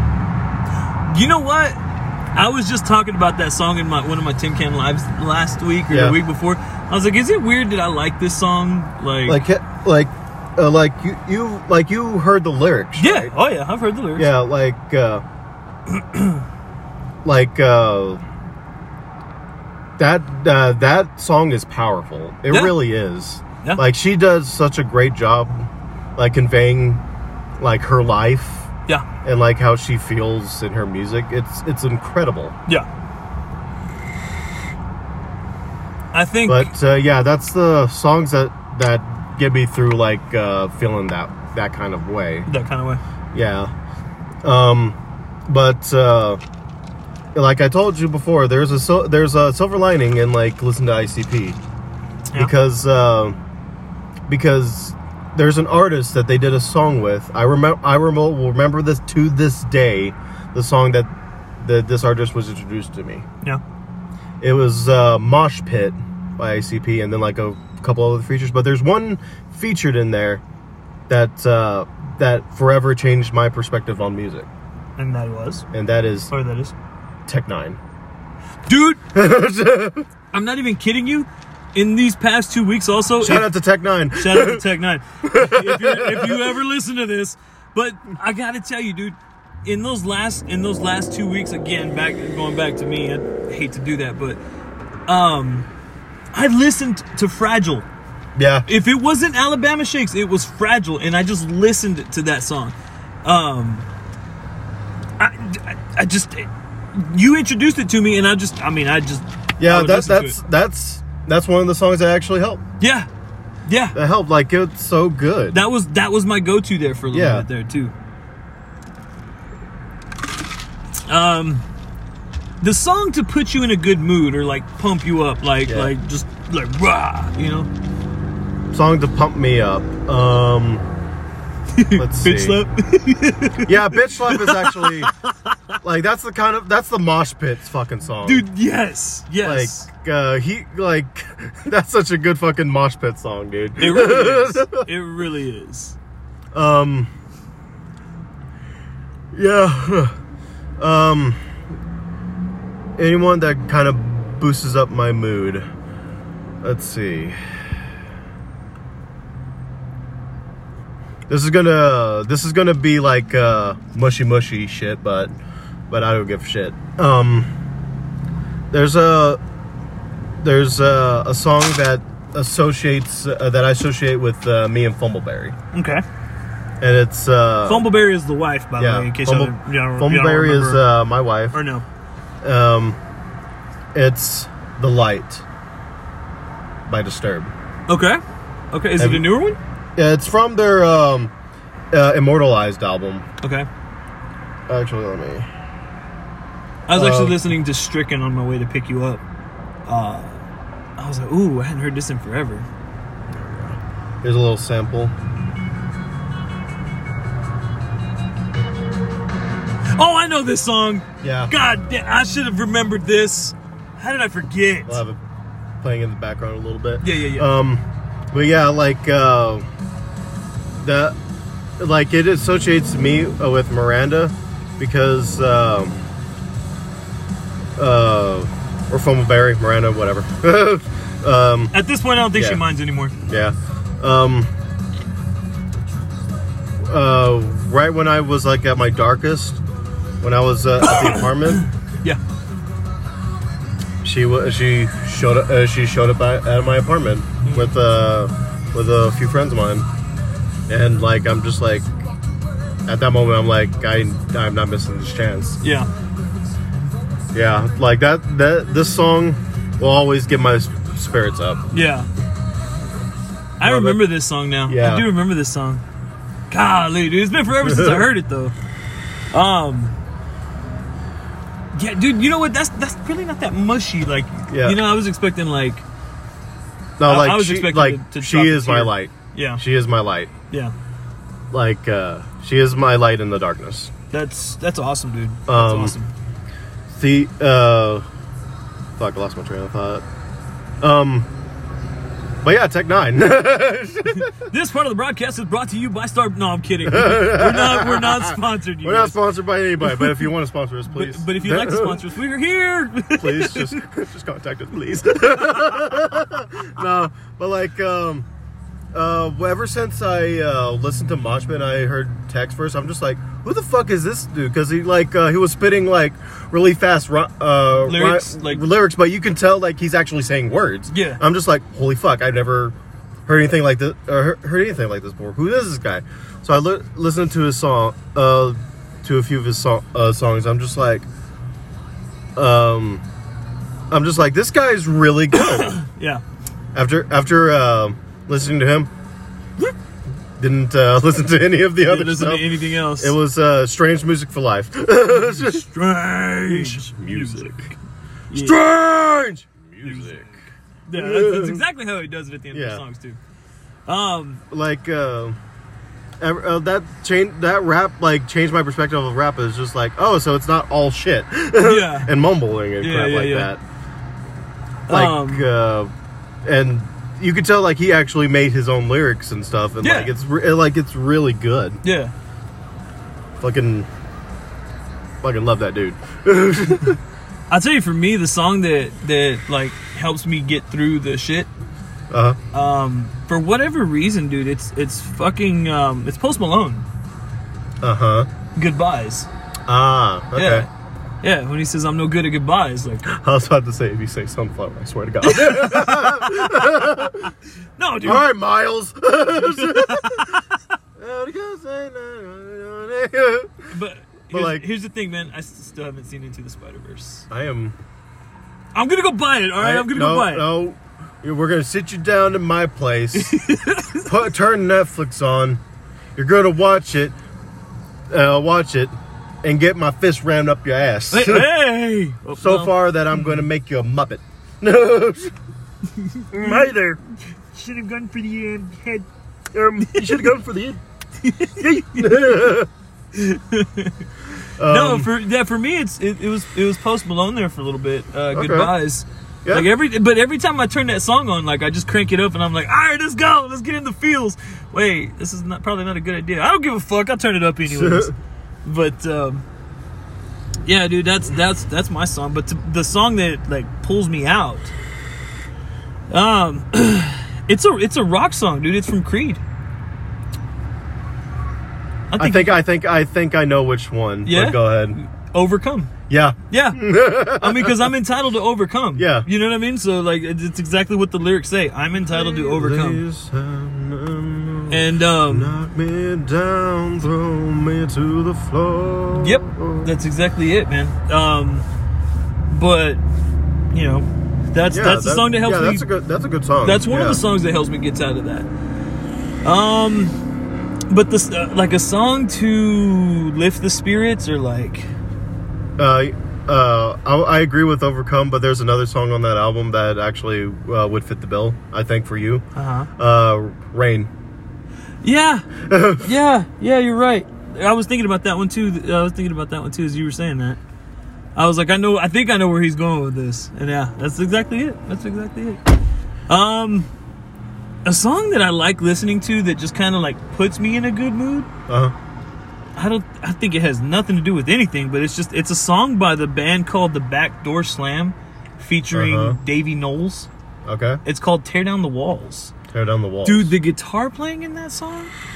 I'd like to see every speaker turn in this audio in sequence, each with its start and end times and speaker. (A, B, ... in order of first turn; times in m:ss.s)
0:01.1-0:01.8 A
0:02.3-0:09.4 A
0:05.9-0:06.2 B
0:09.3-0:13.3 B
0:13.0-0:14.3 A
0:14.2-0:15.2 B
0:15.9-0:16.4 A
0:17.2-0:18.2 B
0:20.0-0:27.0 B
0:22.5-0:22.8 A
0:27.6-0:28.7 B
0:29.2-0:32.5 B
0:36.1-0:36.7 A
0:36.5-0:42.5 B
0:42.5-0:43.0 A
0:43.3-0:43.7 B
0:44.4-0:45.0 B
0:45.5-0:46.4 B
0:47.3-0:51.6 B
0:52.4-0:53.4 B
0:54.3-1:03.2 B
1:04.4-1:10.4 B
1:11.1-1:14.5 B
1:15.0-1:15.6 A
1:15.7-1:16.3 B
1:16.3-1:16.7 A
1:17.3-1:17.8 B
1:18.7-1:19.0 A
1:19.1-1:20.0 B
1:20.3-1:23.5 A
1:23.2-1:24.6 B
1:24.2-1:34.4 A
1:25.2-1:26.5 B
1:35.1-1:35.7 A
1:36.3-1:37.9 A
1:38.4-1:38.7 B
1:38.7-1:43.8 A
1:45.2-1:50.4 A
1:49.6-1:52.6 B
1:52.8-1:53.1 A
1:53.6-1:54.0 A
1:53.9-1:55.6 B
1:55.5-1:57.9 A
1:57.1-1:57.5 B
2:01.1-2:01.6 A
2:02.6-2:07.7 A
2:05.6-2:05.9 B
2:08.7-2:10.8 B
2:11.7-2:15.6 A
2:11.9-2:12.6 B
2:13.6-2:15.1 B
2:15.8-2:18.4 B
2:18.2-2:19.9 A
2:19.4-2:24.8 B
2:23.8-2:26.0 A
2:26.5-2:27.1 B
2:29.3-2:30.2 B
2:30.8-2:31.4 B
2:33.0-2:35.6 B
2:36.6-2:37.4 B
2:41.3-2:45.3 B
2:45.9-2:47.5 B
2:48.7-2:49.4 B
2:50.4-2:55.5 B
2:55.7-2:56.0 A
2:56.8-2:57.9 B
2:57.6-3:00.8 A
2:58.8-3:01.6 B
3:01.5-3:01.8 A
3:02.4-3:03.0 B
3:03.9-3:05.4 B
3:06.9-3:07.5 B
3:07.9-3:08.2 A
3:08.7-3:09.6 A
3:09.0-3:09.2 B
3:10.0-3:11.3 B
3:11.9-3:13.2 B
3:13.4-3:13.7 A
3:14.7-3:15.5 B
3:16.9-3:19.2 A
3:16.9-3:17.4 B
3:19.9-3:20.4 A
3:21.0-3:22.7 A
3:23.3-3:25.1 B
3:29.9-3:35.0 A
3:31.2-3:31.5 B
3:34.9-3:35.2 B
3:35.8-3:39.6 B
3:37.0-3:37.5 A
3:40.8-3:41.2 B
3:41.8-3:46.0 B
3:47.8-3:51.7 B
3:51.7-3:53.1 A
3:52.3-3:52.6 B
3:53.2-3:54.5 B
3:56.8-3:59.6 B
4:00.2-4:01.6 B
4:00.8-4:02.2 A
4:04.0-4:09.9 B
4:07.4-4:07.7 A
4:10.7-4:11.9 B
4:12.8-4:15.6 B
4:15.6-4:15.9 A
4:17.3-4:21.6 B
4:21.7-4:22.1 A
4:23.6-4:25.8 A
4:23.6-4:24.0 B
4:24.7-4:25.1 B
4:26.5-4:28.5 A
4:27.5-4:28.1 B
4:29.3-4:29.9 A
4:31.7-4:35.8 A
4:34.5-4:34.8 B
4:37.0-4:40.3 B
4:37.0-4:39.6 A
4:41.5-4:43.9 B
4:44.1-4:46.1 A
4:45.5-4:45.9 B
4:46.9-4:48.0 B
4:49.0-4:50.0 B
4:50.8-4:51.3 B
4:52.4-4:54.3 B
4:54.1-4:59.2 A
4:56.8-5:02.0 B
4:59.8-5:00.3 A
5:00.9-5:03.8 A
5:03.2-5:08.3 B
5:05.3-5:05.6 A
5:08.9-5:22.7 B
5:17.8-5:18.6 A
5:20.9-5:21.2 A
5:23.2-5:31.1 B
5:32.4-5:33.0 B
5:33.9-5:35.8 B
5:35.3-5:36.2 A
5:36.7-5:38.9 B
5:40.4-5:45.6 B
5:41.8-5:43.2 A
5:45.2-5:47.8 A
5:46.5-5:47.7 B
5:48.3-5:48.6 A
5:48.3-5:50.3 B
5:49.8-5:50.3 A
5:50.9-5:53.2 A
5:50.9-5:51.6 B
5:52.5-5:52.8 B
5:53.9-5:54.4 A
5:54.5-5:55.4 B
5:56.2-6:03.6 B
6:01.6-6:02.1 A
6:02.8-6:03.5 A
6:04.9-6:05.5 A
6:04.9-6:05.9 B
6:06.4-6:11.8 B
6:09.8-6:10.1 A
6:11.8-6:12.1 A
6:13.4-6:13.9 B
6:15.2-6:17.0 B
6:17.5-6:21.5 A
6:22.1-6:22.4 B
6:22.5-6:26.8 A
6:27.8-6:28.3 B
6:28.6-6:29.3 A
6:29.7-6:30.7 B
6:30.4-6:30.7 A
6:31.2-6:33.1 A
6:33.0-6:37.3 B
6:35.2-6:36.5 A
6:37.8-6:38.2 A
6:38.0-6:40.4 B
6:39.4-6:40.5 A
6:41.0-6:43.7 B
6:43.7-6:47.2 A
6:44.3-6:44.6 B
6:47.3-6:47.7 B
6:48.7-6:50.5 A
6:49.6-6:53.4 B
6:53.1-6:54.1 A
6:54.0-6:55.6 B
6:56.2-6:57.2 B
6:58.1-7:01.5 B
7:01.1-7:03.4 A
7:02.3-7:05.3 B
7:05.9-7:07.0 A
7:06.3-7:07.0 B
7:07.5-7:09.1 A
7:09.5-7:10.8 B
7:09.8-7:10.3 A
7:11.2-7:12.6 A
7:11.7-7:12.7 B
7:13.1-7:14.1 A
7:14.6-7:15.1 B
7:14.6-7:28.1 A
7:18.3-7:18.7 B
7:27.6-7:28.1 B
7:28.6-7:29.4 A
7:30.6-7:34.7 A
7:36.1-7:39.4 A
7:42.1-7:42.6 A
7:42.2-7:45.0 B
7:44.2-7:45.9 A
7:46.1-7:47.9 B
7:46.5-7:53.0 A
7:49.0-7:49.3 B
7:52.1-7:59.9 B
7:54.7-7:55.5 A
7:59.2-8:01.7 A
8:02.5-8:03.0 A
8:03.7-8:05.9 A
8:04.7-8:07.2 B
8:06.6-8:08.5 A
8:09.4-8:10.2 A
8:10.9-8:14.9 A
8:15.8-8:22.4 B
8:22.6-8:22.9 A
8:23.0-8:24.1 B
8:25.0-8:30.6 A
8:25.6-8:26.1 B
8:31.4-8:35.6 A
8:36.3-8:36.9 A
8:37.8-8:41.5 A
8:41.7-8:41.9 B
8:42.8-8:50.3 A
8:48.9-8:49.4 B
8:50.6-8:51.0 B
8:51.0-8:52.5 A
8:52.7-8:53.5 B
8:53.2-8:55.1 A